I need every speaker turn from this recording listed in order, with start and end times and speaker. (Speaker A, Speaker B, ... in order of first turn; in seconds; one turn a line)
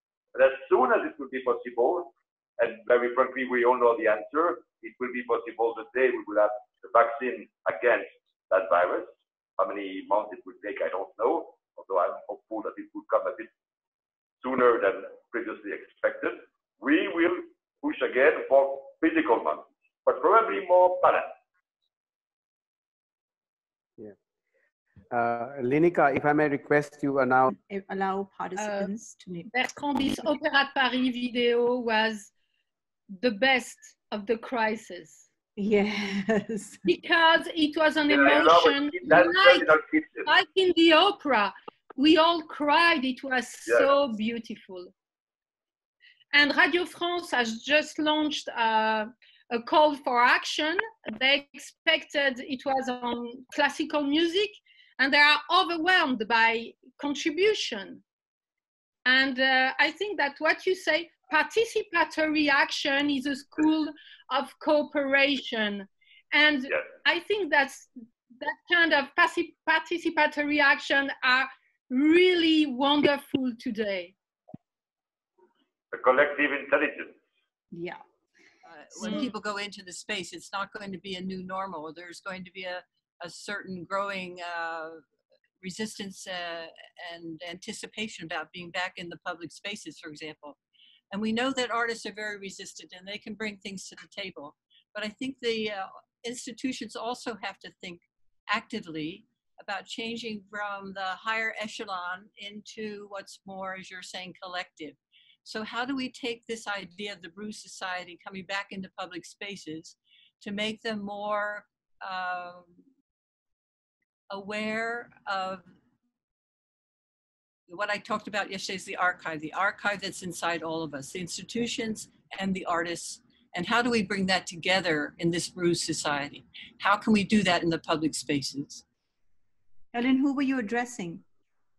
Speaker A: 0.3-13.5
Speaker A: 14.4-21.3
Speaker B: 25.1-27.5
Speaker C: 27.5-29.5
Speaker D: 28.6-28.9
Speaker D: 29.5-32.3
Speaker D: 33.1-35.3
Speaker C: 35.6-36.8
Speaker D: 36.8-39.7
Speaker A: 38.1-40.3
Speaker D: 40.2-44.9
Speaker D: 46.3-58.0
Speaker D: 59.0-74.1
Speaker A: 75.9-77.2
Speaker C: 77.7-78.0
Speaker E: 78.7-85.0
Speaker E: 85.6-90.6
Speaker E: 91.1-112.7
Speaker E: 114.3-115.6
Speaker E: 117.7-128.8
Speaker C: 129.9-131.2